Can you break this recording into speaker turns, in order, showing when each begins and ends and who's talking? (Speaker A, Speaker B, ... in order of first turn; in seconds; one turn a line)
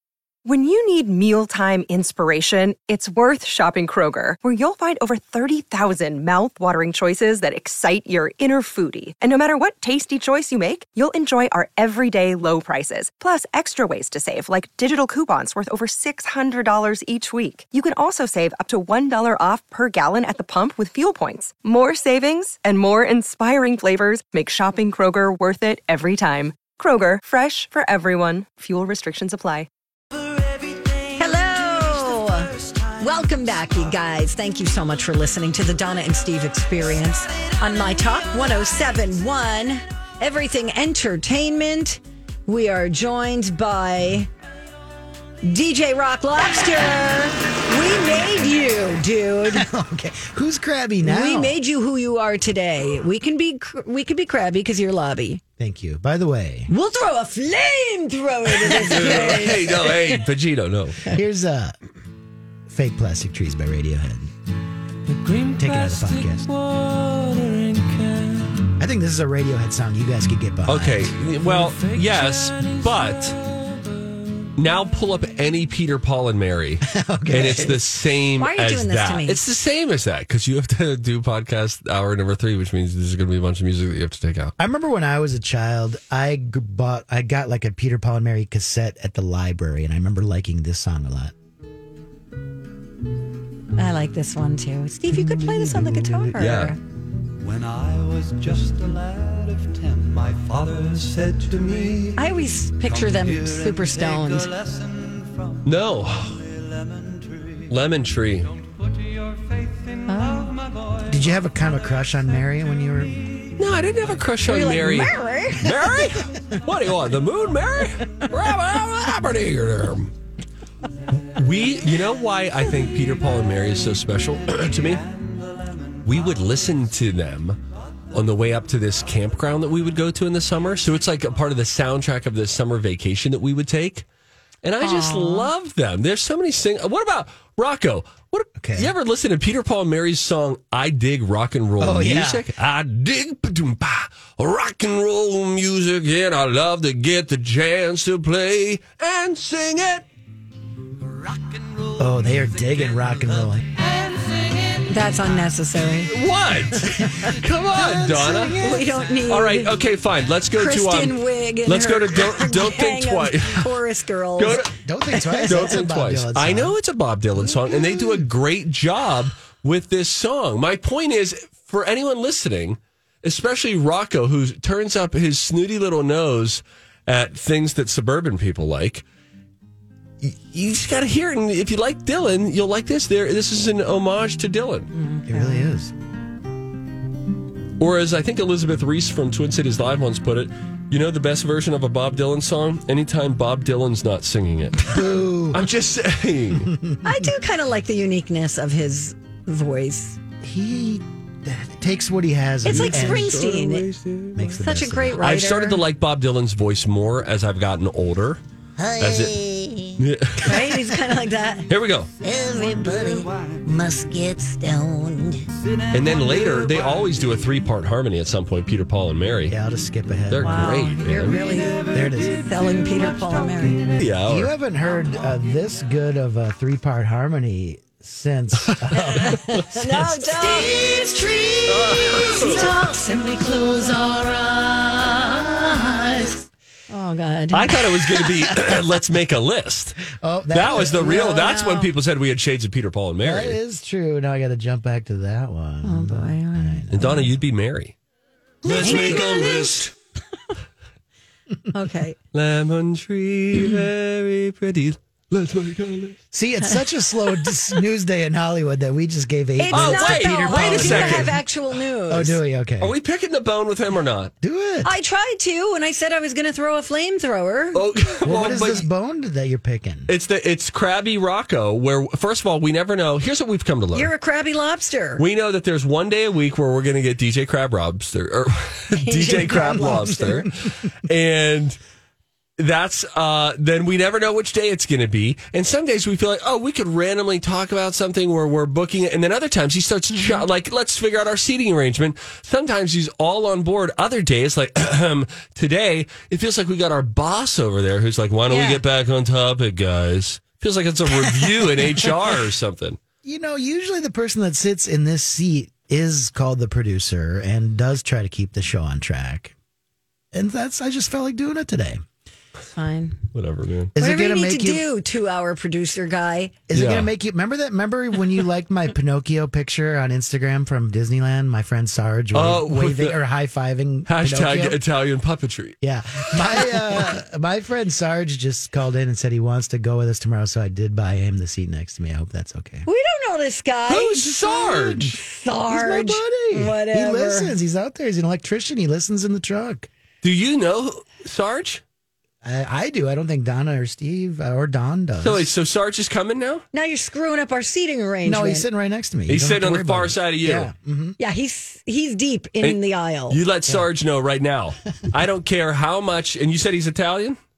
Speaker A: 0.5-29.7
Speaker B: 31.2-44.3
Speaker B: 45.4-49.7
Speaker C: 49.5-51.6
Speaker B: 51.0-55.4
Speaker C: 55.6-56.7
Speaker B: 56.7-60.2
Speaker C: 58.6-59.7
Speaker D: 58.9-61.1
Speaker C: 61.1-61.8
Speaker C: 62.7-64.3
Speaker E: 65.2-68.6
Speaker C: 65.6-66.5
Speaker C: 68.8-71.2
Speaker D: 70.7-73.4
Speaker E: 71.5-73.3
Speaker D: 74.6-84.5
Speaker C: 76.8-77.8
Speaker B: 77.3-77.8
Speaker B: 78.4-79.4
Speaker C: 84.6-91.3
Speaker B: 93.8-96.8
Speaker D: 96.4-96.8
Speaker E: 97.4-102.2
Speaker B: 102.2-104.5
Speaker E: 102.9-105.2
Speaker D: 105.6-106.5
Speaker D: 107.7-108.5
Speaker B: 110.1-110.5
Speaker C: 111.1-113.5
Speaker D: 113.6-120.1
Speaker B: 114.5-115.7
Speaker D: 121.2-125.1
Speaker D: 126.0-127.6
Speaker D: 128.1-134.1
Speaker D: 134.6-150.1
Speaker B: 134.8-135.5
Speaker C: 138.6-138.9
Speaker C: 141.8-142.5
Speaker C: 152.0-153.7
Speaker B: 154.9-156.1
Speaker D: 156.1-163.8
Speaker C: 156.9-159.0
Speaker B: 158.6-159.7
Speaker B: 160.6-165.8
Speaker D: 164.4-164.7
Speaker C: 164.6-166.8
Speaker D: 165.5-179.0
Speaker C: 167.4-168.2
Speaker D: 180.2-184.9
Speaker B: 184.9-185.7
Speaker C: 185.3-185.9
Speaker D: 187.8-194.9
Speaker C: 194.9-195.7
Speaker D: 195.5-196.7
Speaker C: 196.5-197.3
Speaker B: 197.0-200.2
Speaker C: 200.4-203.4
Speaker B: 202.6-203.9
Speaker D: 202.7-204.6
Speaker C: 204.3-205.2
Speaker B: 204.5-205.8
Speaker D: 205.2-208.4
Speaker F: 208.8-210.0
Speaker D: 209.0-209.4
Speaker D: 210.0-210.7
Speaker B: 210.4-211.7
Speaker D: 211.7-212.1
Speaker F: 212.2-215.4
Speaker D: 215.9-219.6
Speaker E: 216.2-217.0
Speaker C: 219.5-221.3
Speaker D: 220.3-221.4
Speaker B: 220.4-224.0
Speaker C: 221.9-222.4
Speaker D: 224.0-224.5
Speaker C: 224.2-229.8
Speaker B: 229.0-236.4
Speaker D: 231.7-232.8
Speaker B: 236.9-238.3
Speaker D: 237.5-243.6
Speaker C: 240.1-241.4
Speaker B: 240.8-241.9
Speaker C: 243.2-247.3
Speaker B: 245.8-247.3
Speaker D: 246.9-248.0
Speaker C: 248.6-249.7
Speaker D: 248.6-249.9
Speaker B: 248.7-249.8
Speaker B: 251.7-252.2
Speaker D: 252.3-256.2
Speaker C: 256.3-261.4
Speaker B: 259.6-262.4
Speaker D: 259.7-261.4
Speaker C: 262.1-262.9
Speaker D: 262.8-264.3
Speaker C: 264.4-264.9
Speaker B: 264.8-267.8
Speaker D: 267.8-268.9
Speaker C: 268.2-270.1
Speaker D: 270.1-274.1
Speaker B: 273.9-275.2
Speaker D: 275.2-281.8
Speaker B: 279.0-280.4
Speaker C: 279.5-280.5
Speaker D: 282.6-303.0
Speaker B: 290.1-290.4
Speaker B: 298.5-298.8
Speaker C: 303.2-309.6
Speaker C: 310.3-312.0
Speaker B: 312.7-313.2
Speaker D: 313.3-313.9
Speaker C: 313.9-314.9
Speaker B: 314.0-316.6
Speaker C: 316.7-324.8
Speaker D: 316.7-317.1
Speaker D: 322.3-323.2
Speaker D: 324.1-327.1
Speaker C: 325.8-332.9
Speaker B: 332.9-337.6
Speaker D: 333.9-335.1
Speaker C: 334.2-339.9
Speaker D: 340.2-341.8
Speaker C: 342.4-345.5
Speaker D: 345.2-346.6
Speaker B: 346.7-348.7
Speaker C: 348.2-351.2
Speaker D: 349.3-350.7
Speaker B: 351.2-353.4
Speaker D: 352.6-357.4